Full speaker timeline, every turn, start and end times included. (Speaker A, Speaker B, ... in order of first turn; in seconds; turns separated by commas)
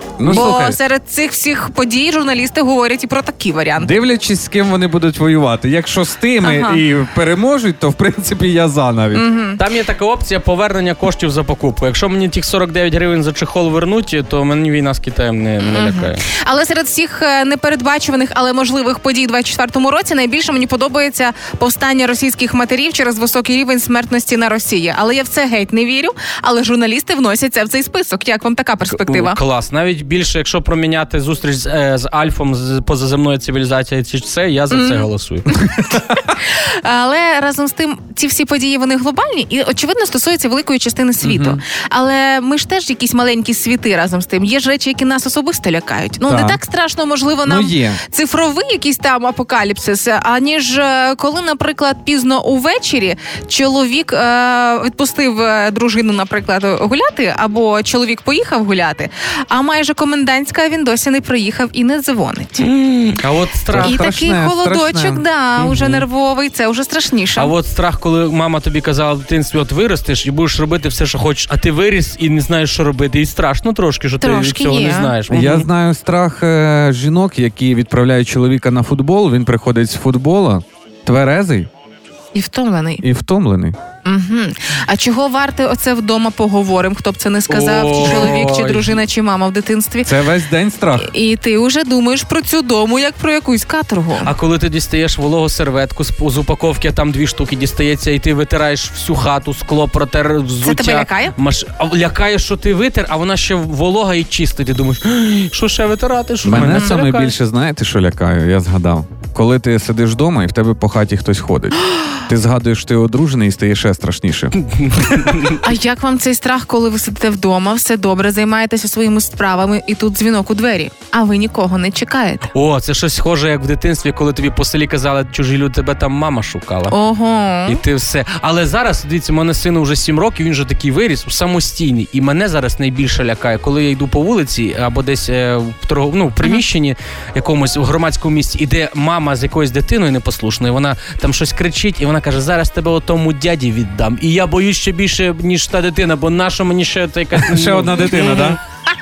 Speaker A: 0.2-0.8, Speaker B: 0.2-3.9, Speaker A: 3.7-9.3, Speaker B: 6.4-6.8, Speaker B: 9.1-9.6, Speaker C: 9.6-16.2, Speaker B: 15.7-29.4, Speaker C: 28.9-35.5, Speaker B: 34.7-62.7, Speaker A: 41.2-41.6, Speaker A: 46.2-46.6, Speaker A: 47.4-48.0, Speaker C: 62.6-64.0, Speaker A: 63.7-65.2, Speaker B: 63.8-67.5, Speaker C: 65.6-66.0, Speaker C: 67.3-75.7, Speaker B: 74.2-75.1, Speaker A: 75.3-81.7, Speaker B: 82.3-83.0, Speaker A: 83.0-83.8, Speaker B: 84.0-90.2, Speaker C: 87.5-89.0, Speaker A: 90.0-91.1, Speaker B: 91.0-94.3, Speaker C: 94.2-107.3, Speaker B: 100.6-101.3, Speaker A: 106.4-114.5, Speaker B: 106.5-107.0, Speaker C: 114.6-115.6, Speaker B: 115.6-122.5, Speaker C: 122.5-126.9, Speaker B: 126.9-127.8, Speaker C: 127.7-148.5, Speaker A: 147.3-148.6